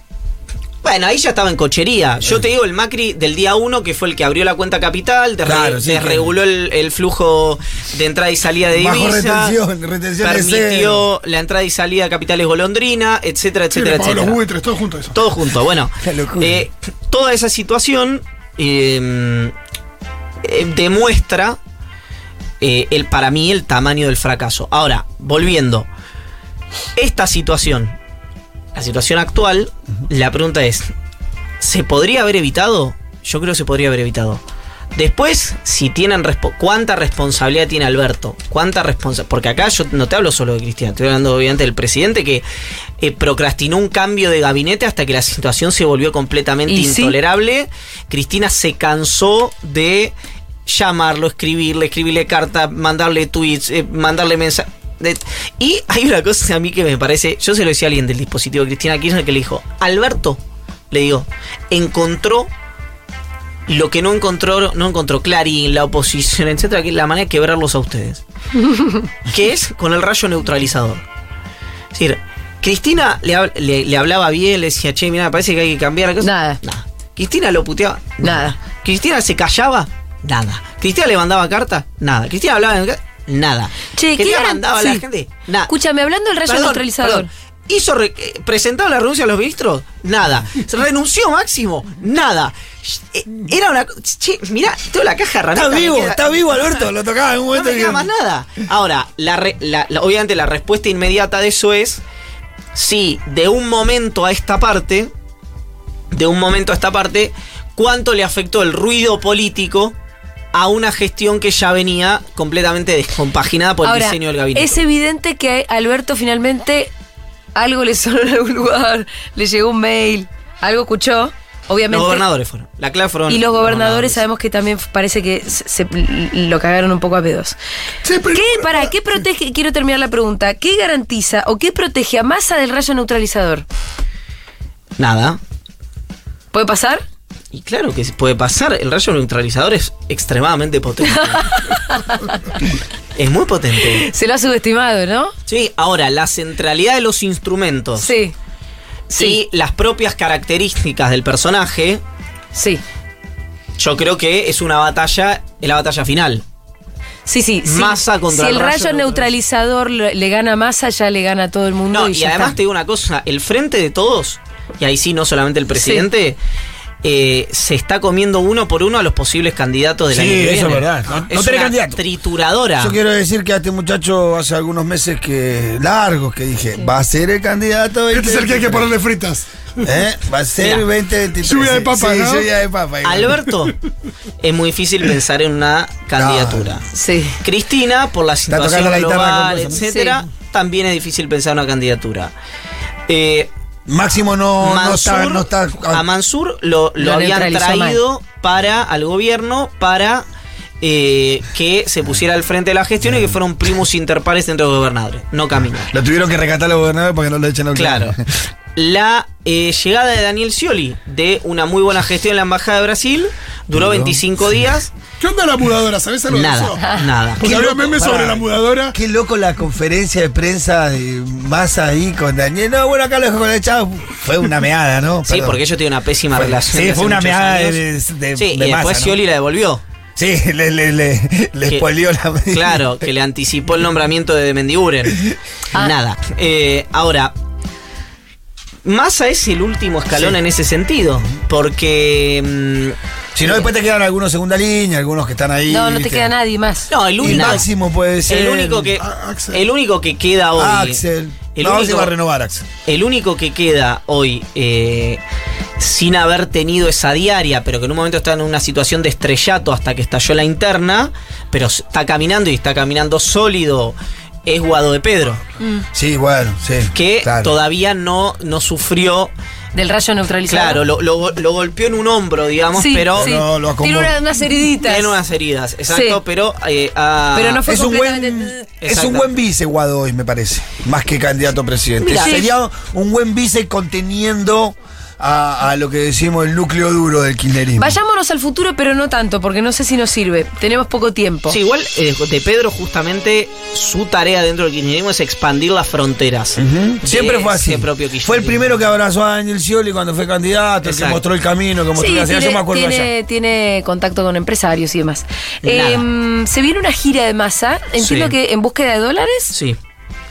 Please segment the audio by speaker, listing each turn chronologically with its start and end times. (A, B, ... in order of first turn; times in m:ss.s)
0:00.8-0:09.6 A
0:05.4-0:06.3 B
0:08.7-0:11.0 B
0:10.2-0:14.4 A
0:13.7-0:15.2 C
0:15.1-0:19.5 A
0:16.0-0:16.7 B
0:20.4-0:21.6 A
0:22.6-0:25.9 A
0:27.0-0:28.0 A
0:28.7-0:30.9 A
0:31.6-0:34.4 A
0:35.0-0:42.4 A
0:43.0-0:50.1 A
0:46.7-0:47.2 D
0:50.6-1:00.4 A
1:00.9-1:02.5 A
1:03.7-1:08.2 A
1:08.6-1:09.0 D
1:09.3-1:11.0 A
1:11.9-1:25.7 A
1:16.2-1:16.6 D
1:18.2-1:18.5 D
1:23.9-1:25.0 D
1:25.7-1:27.3 D
1:26.4-1:36.6 A
1:35.5-1:38.1 B
1:37.5-1:42.0 A
1:42.7-1:45.1 A
1:46.1-1:49.9 A
1:50.5-1:54.8 A
1:53.8-1:56.9 D
1:57.5-2:02.2 D
2:01.9-2:04.2 A
2:03.3-2:07.6 D
2:08.0-2:08.9 C
2:08.3-2:13.6 D
2:15.0-2:15.4 A
2:16.5-2:17.0 D
2:17.5-2:21.6 A
2:21.0-2:22.6 D
2:23.2-2:24.0 A
2:23.8-2:25.3 D
2:25.5-2:28.1 A
2:28.0-2:28.3 D
2:29.1-2:32.0 A
2:29.1-2:29.4 D
2:32.5-2:32.8 D
2:33.8-2:36.4 A
2:37.2-2:42.6 D
2:37.6-2:39.2 A
2:41.9-2:46.4 A
2:45.7-2:46.0 D
2:47.0-2:52.9 A
2:50.1-2:52.0 B
2:52.8-2:58.9 B
2:58.1-2:59.8 C
2:59.8-3:03.5 B
3:00.6-3:00.8 A
3:01.4-3:02.5 C
3:03.0-3:03.8 A
3:04.4-3:06.8 A
3:06.2-3:06.8 B
3:06.9-3:07.4 D
3:07.4-3:12.3 A
3:08.5-3:09.8 B
3:09.8-3:10.2 D
3:13.1-3:13.5 A
3:13.9-3:16.0 B
3:14.6-3:20.2 A
3:17.0-3:18.0 D
3:20.8-3:25.9 A
3:23.1-3:23.4 B
3:25.9-3:28.2 B
3:27.7-3:28.2 A
3:28.8-3:34.9 A
3:33.7-3:34.2 B
3:35.2-3:39.0 C
3:36.3-3:37.5 A
3:37.4-3:45.6 B
3:45.2-3:47.8 A
3:46.3-3:49.2 B
3:48.3-3:49.8 A
3:50.2-3:52.8 B
3:52.5-3:57.3 A
3:58.8-4:03.0 A
4:03.3-4:06.3 B
4:05.7-4:06.9 D
4:06.9-4:07.7 A
4:07.2-4:08.9 B
4:08.3-4:11.0 A
4:09.0-4:09.6 C
4:10.6-4:12.7 B
4:11.5-4:12.1 A
4:12.8-4:15.2 A
4:15.8-4:25.4 A
4:25.9-4:27.5 B
4:26.9-4:29.3 A
4:29.7-4:30.8 D
4:30.5-4:33.3 A
4:32.8-4:35.1 D
4:33.1-4:34.1 B
4:34.8-4:37.6 A
4:35.9-4:36.2 D
4:37.3-4:38.7 D
4:37.6-4:48.0 B
4:38.8-4:39.3 A
4:42.0-4:42.4 A
4:42.0-4:42.5 D
4:47.8-4:51.6 D
4:51.5-4:58.8 A
4:56.6-5:03.1 B
5:00.8-5:01.2 A
5:01.9-5:09.5 D
5:05.6-5:06.0 A
5:08.0-5:08.3 A
5:09.5-5:09.8 A